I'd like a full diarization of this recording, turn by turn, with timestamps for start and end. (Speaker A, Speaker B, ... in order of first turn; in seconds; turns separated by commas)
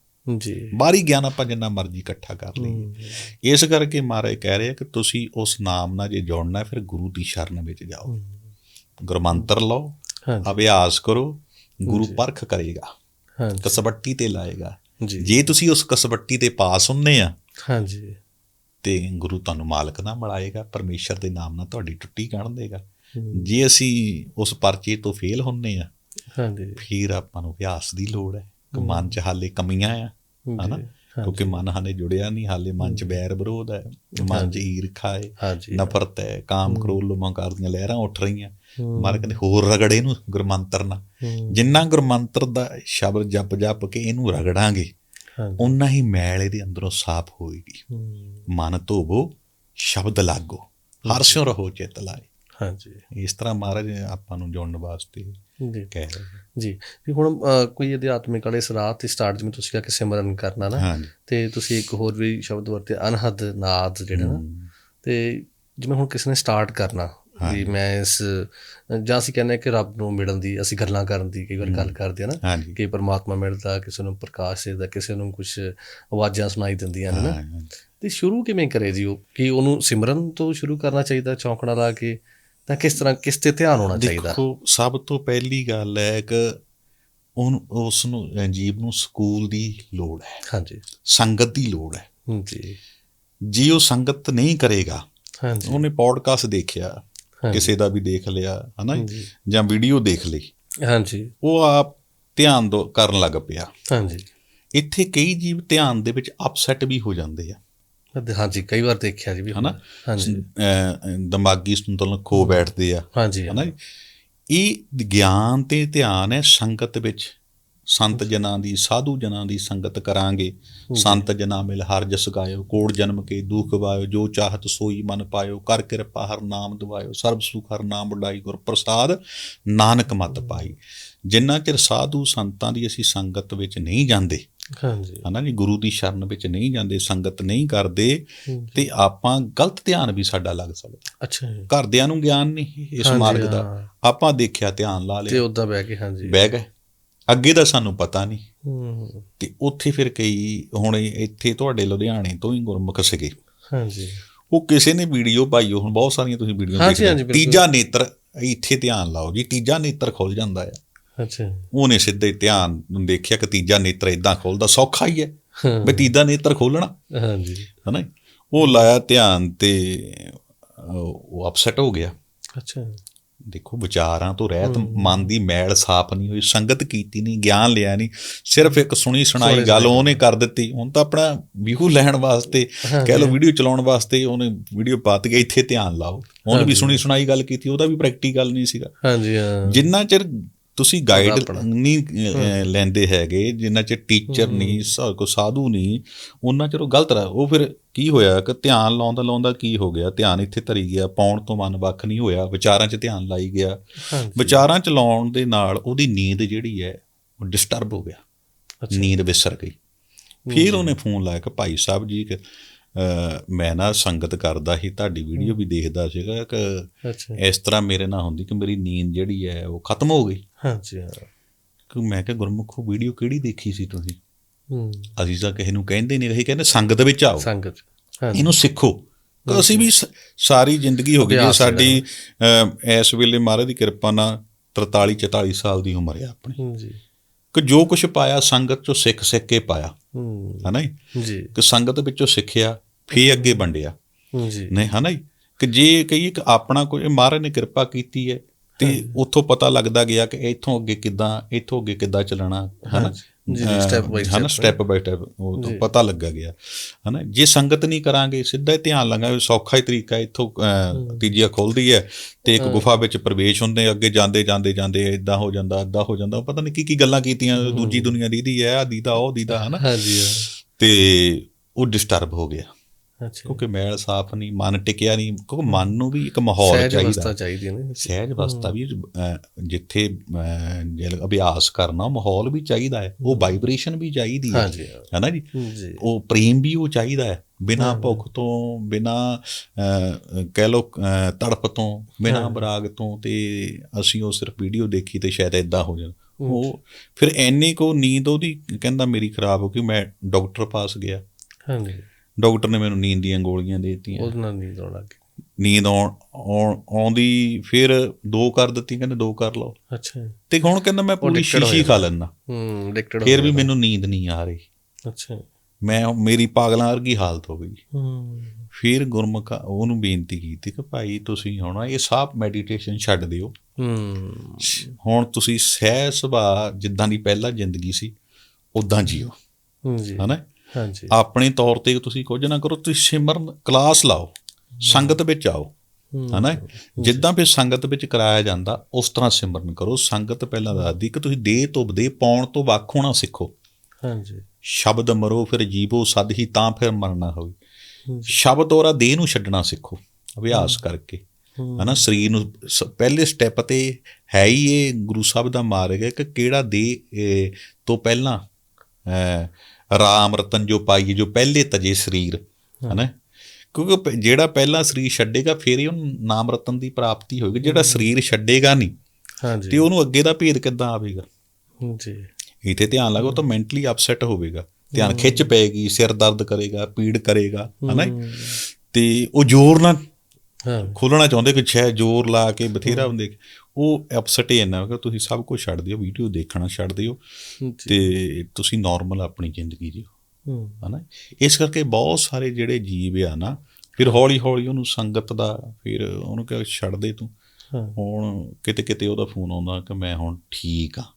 Speaker A: 0.3-0.7, Speaker B: 0.7-8.1, Speaker A: 2.5-3.3, Speaker A: 8.1-8.4, Speaker B: 9.0-12.9, Speaker A: 10.2-10.6, Speaker A: 11.9-12.2, Speaker A: 13.4-13.8, Speaker B: 13.6-17.3, Speaker A: 15.0-15.5, Speaker A: 17.6-18.2, Speaker B: 18.8-25.9, Speaker A: 23.1-23.5, Speaker A: 26.4-26.8, Speaker B: 26.8-44.9, Speaker A: 28.7-29.2, Speaker A: 30.5-31.6, Speaker A: 32.8-33.1, Speaker A: 34.2-34.7, Speaker A: 35.4-36.0, Speaker A: 36.7-37.0, Speaker A: 38.8-39.3, Speaker A: 41.2-41.7, Speaker A: 45.4-45.8, Speaker B: 45.6-47.8, Speaker A: 47.9-48.5, Speaker B: 48.5-52.3, Speaker A: 51.0-51.4, Speaker A: 52.6-53.0, Speaker B: 53.1-55.4, Speaker A: 55.6-55.9, Speaker B: 55.9-56.4, Speaker A: 56.5-64.4, Speaker B: 60.8-61.1, Speaker B: 64.1-64.7, Speaker A: 65.0-77.4, Speaker B: 67.4-67.7, Speaker B: 71.6-72.8, Speaker B: 77.1-77.7, Speaker A: 78.0-84.4, Speaker B: 83.9-86.6, Speaker B: 87.4-90.4, Speaker A: 90.5-90.8, Speaker B: 91.1-92.0, Speaker A: 92.3-92.8, Speaker B: 93.5-95.0, Speaker A: 95.4-95.8, Speaker B: 95.6-97.0, Speaker A: 97.4-97.7, Speaker B: 97.5-100.5, Speaker A: 98.9-99.3, Speaker A: 100.8-101.3, Speaker B: 101.4-103.7, Speaker A: 103.9-104.3, Speaker B: 104.7-107.6, Speaker A: 108.1-110.4, Speaker B: 109.5-113.8, Speaker A: 112.3-112.6, Speaker A: 113.1-113.7, Speaker B: 114.5-117.4, Speaker B: 117.9-134.4, Speaker A: 120.9-121.3, Speaker A: 130.3-130.7, Speaker A: 134.8-135.2, Speaker B: 135.2-141.1, Speaker A: 138.5-138.9, Speaker A: 141.2-141.7, Speaker B: 141.7-145.4, Speaker A: 143.0-143.9, Speaker A: 145.3-146.4, Speaker B: 146.2-146.7, Speaker B: 147.3-148.4, Speaker A: 148.7-149.3, Speaker B: 149.4-153.3, Speaker A: 153.7-154.2, Speaker B: 154.5-160.8, Speaker A: 156.7-157.6, Speaker A: 161.2-161.7, Speaker B: 161.7-166.9, Speaker A: 165.6-166.1, Speaker A: 167.1-167.7, Speaker B: 167.9-172.1, Speaker A: 168.6-168.9, Speaker A: 172.6-173.0, Speaker B: 173.5-188.9, Speaker A: 174.6-175.3, Speaker A: 179.4-180.2, Speaker A: 182.8-183.4, Speaker A: 186.5-187.0, Speaker A: 189.0-189.8, Speaker B: 189.7-208.2, Speaker A: 191.1-191.7, Speaker A: 192.3-192.7, Speaker A: 194.3-194.9, Speaker A: 204.1-204.7, Speaker A: 208.8-209.1, Speaker B: 208.9-209.8, Speaker A: 210.5-211.0, Speaker B: 210.5-220.4, Speaker A: 217.0-217.4, Speaker A: 220.6-221.3, Speaker B: 221.9-224.2, Speaker A: 224.7-225.1, Speaker B: 225.2-227.5, Speaker A: 227.4-228.6, Speaker B: 228.3-236.6, Speaker A: 229.5-229.9, Speaker A: 231.2-232.0, Speaker A: 236.6-237.0, Speaker B: 237.5-239.9, Speaker A: 240.2-241.5, Speaker B: 240.6-240.9, Speaker B: 241.5-243.9, Speaker A: 243.1-243.6, Speaker A: 244.3-244.8, Speaker B: 244.7-272.7, Speaker A: 248.8-249.2, Speaker A: 252.9-254.8, Speaker A: 255.6-255.8, Speaker A: 260.9-261.2, Speaker A: 262.6-262.9, Speaker A: 267.6-268.2, Speaker A: 269.5-270.5, Speaker A: 273.2-273.6, Speaker B: 273.5-277.3, Speaker A: 275.7-275.9, Speaker A: 276.6-278.7, Speaker B: 278.0-285.5, Speaker A: 283.2-283.5, Speaker A: 284.5-286.0, Speaker B: 286.0-301.2, Speaker A: 287.8-288.2, Speaker A: 292.2-292.6, Speaker A: 296.4-296.7, Speaker A: 301.7-302.1, Speaker B: 302.4-304.3, Speaker A: 304.1-305.2, Speaker B: 305.6-309.8, Speaker A: 309.9-310.4, Speaker B: 310.5-312.3, Speaker A: 311.2-313.7, Speaker B: 313.2-314.6, Speaker A: 315.1-315.4, Speaker B: 315.9-317.8, Speaker A: 317.9-318.7, Speaker B: 318.7-323.5, Speaker A: 323.8-324.9, Speaker B: 324.6-328.1, Speaker B: 328.8-329.3, Speaker A: 329.8-331.1, Speaker B: 331.1-334.3, Speaker A: 334.8-335.2, Speaker B: 334.8-335.7, Speaker A: 336.1-337.2, Speaker B: 336.3-343.5, Speaker A: 344.0-344.4, Speaker B: 344.7-347.5, Speaker A: 348.1-348.4, Speaker B: 348.3-351.2, Speaker A: 350.5-350.8, Speaker A: 351.6-352.0, Speaker B: 351.8-358.4, Speaker B: 359.1-363.1, Speaker B: 363.7-368.9, Speaker A: 367.6-368.1, Speaker A: 369.4-369.9, Speaker B: 369.7-371.2, Speaker A: 371.8-372.3, Speaker B: 372.6-380.0, Speaker A: 373.2-373.4, Speaker A: 374.9-375.5, Speaker A: 377.8-378.6, Speaker A: 380.7-381.0, Speaker B: 380.9-387.2, Speaker A: 382.8-383.1, Speaker A: 387.6-388.1, Speaker B: 387.9-390.1, Speaker A: 390.5-390.8, Speaker B: 390.8-397.3, Speaker A: 397.7-398.0, Speaker B: 398.0-401.1